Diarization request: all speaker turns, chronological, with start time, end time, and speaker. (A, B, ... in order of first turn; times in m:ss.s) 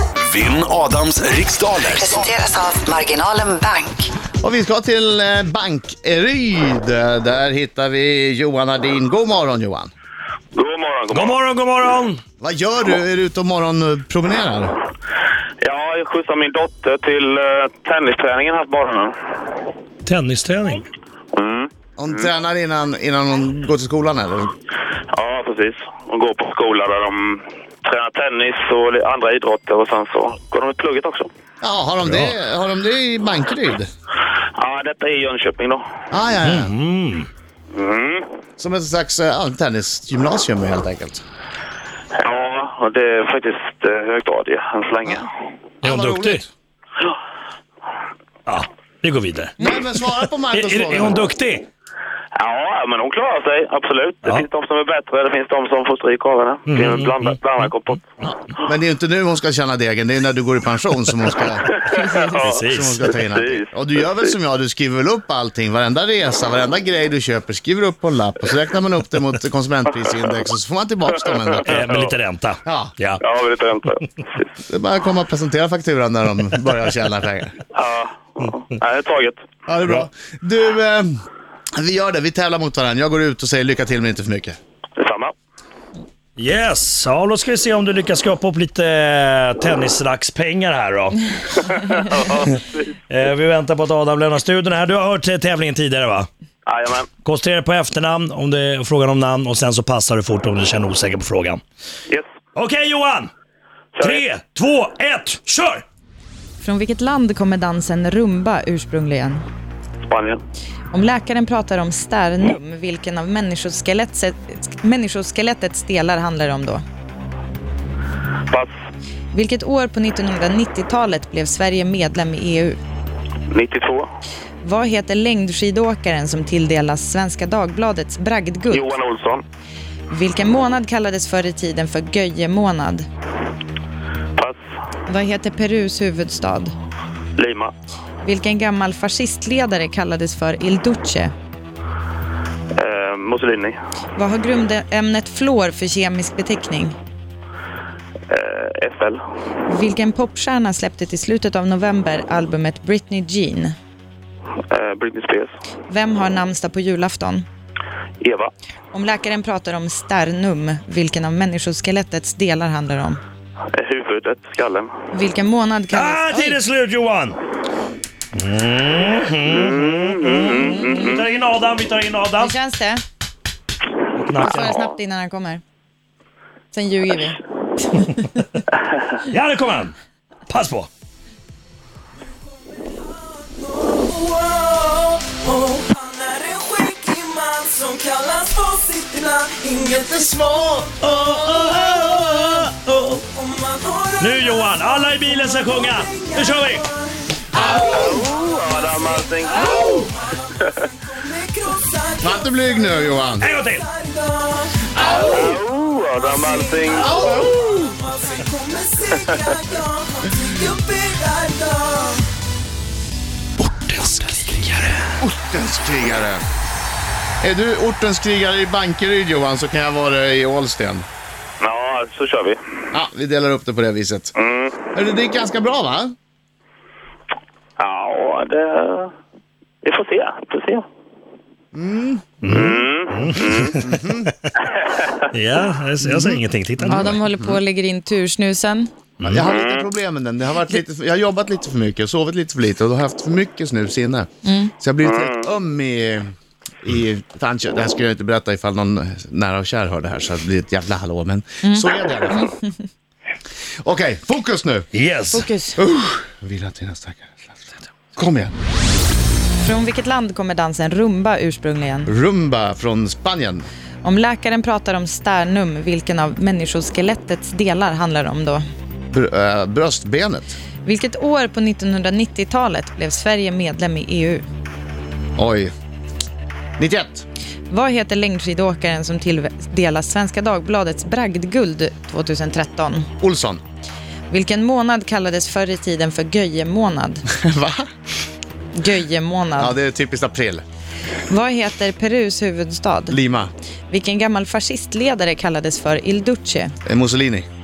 0:00.2-0:02.3 A
0:01.9-0:04.1 B
0:04.4-0:09.9 C
0:10.5-0:11.4 D
0:11.1-0:12.2 E
0:12.4-0:14.8 C
0:15.6-0:19.1 D
0:20.0-0:20.9 E
0:21.3-0:22.2 D
0:22.0-0:24.5 C
0:25.1-0:31.3 D
0:31.6-0:33.9 C
0:32.0-0:32.3 E
0:34.6-0:35.8 D
0:36.1-0:36.7 C
0:36.4-0:37.3 E
0:37.7-0:38.3 D
0:38.6-0:41.2 C
0:42.2-0:45.3 D
0:45.8-0:46.4 E
0:45.8-0:46.4 C
0:48.5-0:51.6 E
0:49.6-0:51.2 C
0:52.4-0:58.0 D
0:56.7-0:57.7 E
0:58.6-1:01.7 C
1:01.6-1:03.7 D
1:02.4-1:03.1 E
1:02.6-1:11.8 C
1:11.7-1:13.2 E
1:12.6-1:12.9 C
1:13.2-1:14.4 D
1:14.7-1:17.6 C
1:17.7-1:19.4 D
1:19.7-1:21.2 C
1:21.8-1:24.6 C
1:25.0-1:25.3 D
1:26.4-1:31.2 E
1:31.6-1:32.9 D
1:33.1-1:36.3 E
1:36.7-1:37.1 D
1:37.2-1:41.6 E
1:42.6-1:43.3 E
1:44.0-1:44.2 D
1:44.0-1:45.8 E
1:46.6-1:49.4 F
1:50.0-1:50.4 D
1:50.9-1:56.8 F
1:59.3-2:02.8 F
2:03.5-2:04.1 D
2:04.6-2:09.0 F
2:08.7-2:09.4 D
2:10.1-2:13.0 F
2:15.1-2:16.7 F
2:17.4-2:17.7 D
2:18.2-2:21.3 F
2:22.8-2:23.8 D
2:24.2-2:27.0 F
2:28.3-2:29.2 D
2:29.7-2:33.7 F
2:34.7-2:35.5 D
2:35.9-2:37.4 F
2:38.2-2:38.5 D
2:38.9-2:43.2 F
2:43.7-2:44.9 D
2:45.1-2:46.6 F
2:45.9-2:47.4 E
2:48.3-2:52.5 E
2:49.5-2:51.2 D
2:50.4-2:51.2 F
2:52.4-2:53.0 F
2:54.2-2:54.9 E
2:54.4-2:55.6 F
2:56.7-2:58.4 F
2:59.2-2:59.9 E
3:00.5-3:00.9 E
3:02.4-3:12.6 G
3:09.8-3:10.9 C
3:11.0-3:13.2 E
3:13.2-3:25.4 G
3:14.2-3:16.8 E
3:17.5-3:18.2 C
3:17.8-3:19.8 D
3:22.2-3:23.5 C
3:23.4-3:23.8 E
3:24.9-3:25.6 C
3:25.1-3:27.1 D
3:26.2-3:32.2 G
3:27.0-3:28.0 C
3:33.6-3:34.5 A
3:34.0-3:34.9 E
3:35.2-3:36.4 C
3:37.4-3:41.0 C
3:41.6-3:42.6 D
3:42.9-3:44.3 C
3:44.3-3:44.8 D
3:44.9-3:46.1 C
3:47.8-3:49.1 D
3:49.8-3:50.8 D
3:51.7-3:52.7 C
3:52.4-3:54.3 E
3:52.5-3:53.7 D
3:53.8-3:54.3 C
3:54.7-3:55.2 D
3:55.3-3:57.2 E
3:56.0-3:57.6 C
3:56.9-3:58.9 F
3:59.2-4:04.3 C
3:59.4-3:59.9 D
4:04.4-4:04.7 F
4:04.8-4:12.5 C
4:05.0-4:05.5 D
4:11.6-4:12.7 F
4:13.8-4:14.9 C
4:14.9-4:15.4 E
4:15.3-4:15.8 F
4:15.8-4:18.6 C
4:19.6-4:22.1 F
4:22.1-4:23.7 C
4:24.0-4:28.6 F
4:29.1-4:30.6 C
4:30.8-4:34.4 F
4:35.4-4:35.7 C
4:36.8-4:37.2 C
4:37.7-4:43.1 F
4:43.2-4:43.6 C
4:44.3-4:47.2 F
4:47.3-4:47.9 C
4:48.7-4:49.8 F
4:49.6-4:50.6 C
4:51.3-4:53.2 F
4:53.1-4:53.5 C
4:53.9-4:56.8 F
4:56.9-4:57.5 C